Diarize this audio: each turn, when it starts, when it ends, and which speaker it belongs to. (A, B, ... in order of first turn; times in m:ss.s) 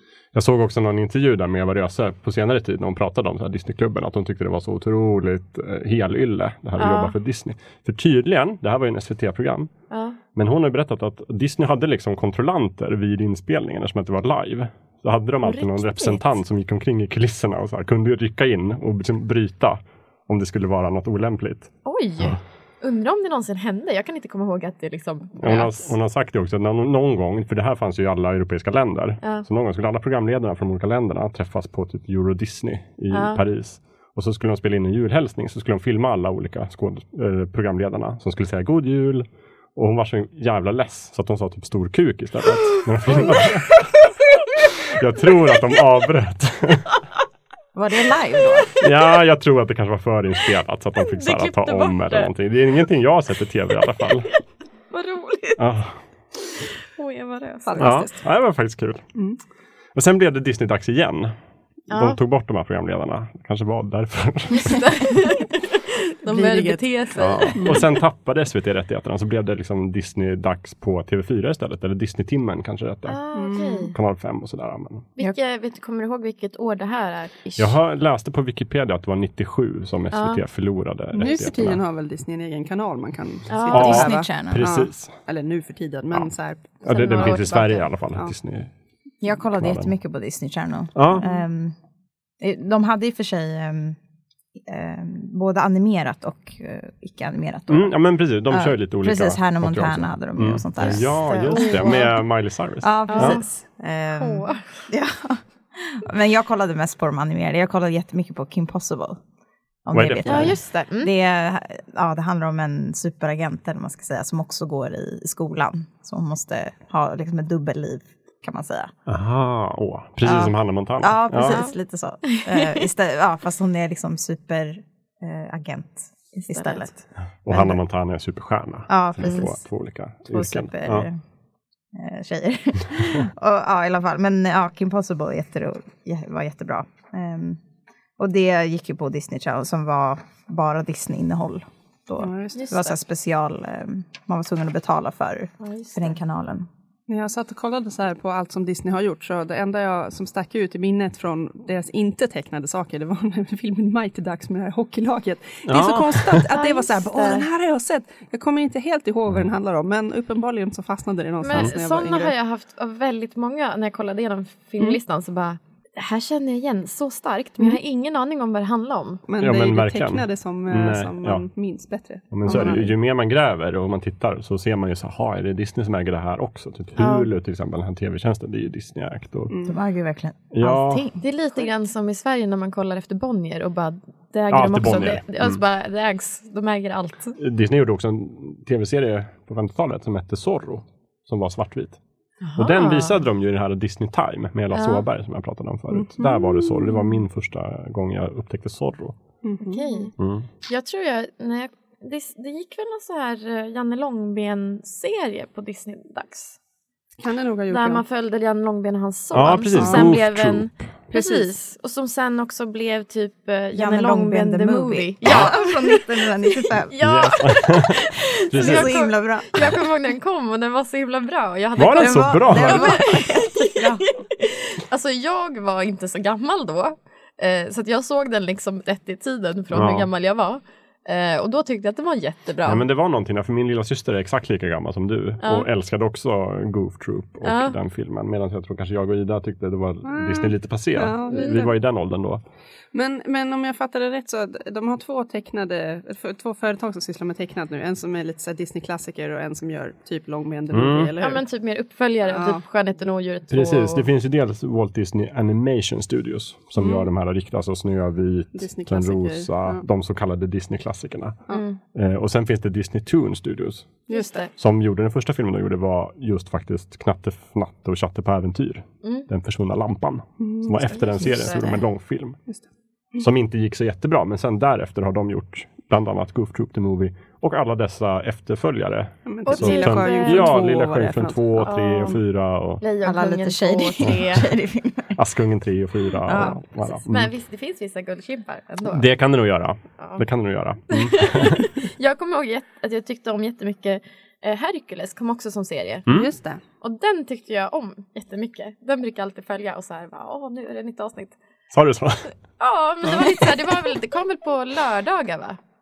0:00.3-0:09.7 A
0:06.8-0:07.2 B
0:09.9-0:10.2 B
0:10.3-0:22.4 A
0:15.4-0:16.2 B
0:21.8-0:25.9 B
0:25.4-0:43.9 A
0:33.1-0:33.4 B
0:43.1-0:43.5 B
0:44.8-0:47.0 A
0:47.8-0:48.7 C
0:48.8-0:54.3 A
0:51.0-0:52.3 B
0:54.9-0:55.6 B
0:55.6-0:56.0 A
0:57.0-0:58.0 B
0:57.7-0:58.2 D
0:57.8-0:59.1 A
1:00.0-1:01.3 A
1:01.9-1:02.2 B
1:01.9-1:05.1 A
1:04.5-1:07.8 B
1:06.3-1:06.8 D
1:07.2-1:13.2 A
1:07.5-1:07.8 D
1:13.1-1:14.0 B
1:13.3-1:13.9 D
1:13.9-1:15.1 A
1:15.2-1:17.8 B
1:17.6-1:21.8 A
1:20.1-1:20.4 B
1:21.1-1:27.5 D
1:23.5-1:24.1 B
1:23.7-1:24.7 C
1:23.7-1:25.1 A
1:26.8-1:27.9 B
1:26.9-1:28.7 A
1:29.2-1:31.8 C
1:29.5-1:29.9 A
1:31.0-1:31.3 A
1:32.4-1:34.0 C
1:34.6-1:42.1 C
1:37.7-1:43.4 A
1:40.8-1:42.2 B
1:42.8-1:49.2 C
1:43.1-1:43.5 B
1:44.2-1:44.6 B
1:49.8-1:58.9 C
1:49.9-1:50.6 A
1:50.2-1:51.1 B
1:59.1-2:01.6 A
2:00.2-2:07.8 C
2:01.4-2:02.9 B
2:06.5-2:06.9 B
2:07.4-2:11.1 A
2:08.9-2:09.6 C
2:10.3-2:11.2 C
2:11.9-2:17.6 C
2:18.2-2:26.7 C
2:22.2-2:22.8 D
2:22.6-2:23.0 B
2:25.6-2:26.2 B
2:27.1-2:42.3 D
2:35.7-2:36.5 A
2:36.5-2:37.4 B
2:41.4-2:49.2 B
2:49.3-2:52.9 D
2:49.4-2:51.4 A
2:52.3-2:59.5 A
2:52.5-2:52.8 B
2:57.0-2:57.3 B
2:59.5-2:59.8 D
2:59.6-3:01.2 C
3:00.5-3:01.1 A
3:01.2-3:07.4 B
3:04.5-3:05.6 A
3:07.4-3:12.0 A
3:12.4-3:13.2 B
3:12.6-3:19.2 A
3:14.7-3:15.0 B
3:15.9-3:17.2 D
3:19.4-3:20.1 D
3:19.6-3:20.1 B
3:20.2-3:20.5 A
3:20.7-3:26.6 B
3:27.2-3:28.0 D
3:27.7-3:52.9 B
3:29.3-3:30.9 A
3:29.7-3:30.1 D
3:31.1-3:31.5 D
3:33.7-3:37.0 C
3:35.2-3:35.6 A
3:37.0-3:38.9 A
3:38.5-3:39.9 C
3:41.8-3:43.1 A
3:42.0-3:44.1 C
3:49.7-3:50.1 A
3:52.6-4:02.4 A
3:55.4-3:55.7 B
3:57.4-3:57.8 B
4:00.0-4:01.8 D
4:01.3-4:01.6 B
4:02.9-4:11.4 D
4:10.7-4:11.1 A
4:11.2-4:14.1 B
4:12.3-4:12.6 D
4:13.5-4:21.4 A
4:16.8-4:17.1 D
4:18.6-4:19.8 D
4:21.5-4:21.8 B
4:21.9-4:24.0 A
4:24.1-4:24.5 D
4:24.1-4:24.5 B
4:24.6-4:32.4 A
4:30.4-4:31.3 D
4:30.9-4:31.8 B
4:32.5-4:33.2 D
4:33.2-4:42.8 A
4:39.3-4:41.7 D
4:39.5-4:40.6 B
4:41.6-4:42.2 B
4:42.8-4:44.5 B
4:43.0-4:45.2 C
4:45.2-4:47.3 A
4:46.3-4:46.6 C
4:46.8-4:49.1 B
4:48.9-4:51.7 A
4:50.0-4:50.2 B
4:50.9-4:56.1 B
4:56.1-4:56.6 D
4:56.8-5:01.4 B
5:01.7-5:02.3 A
5:02.6-5:05.6 B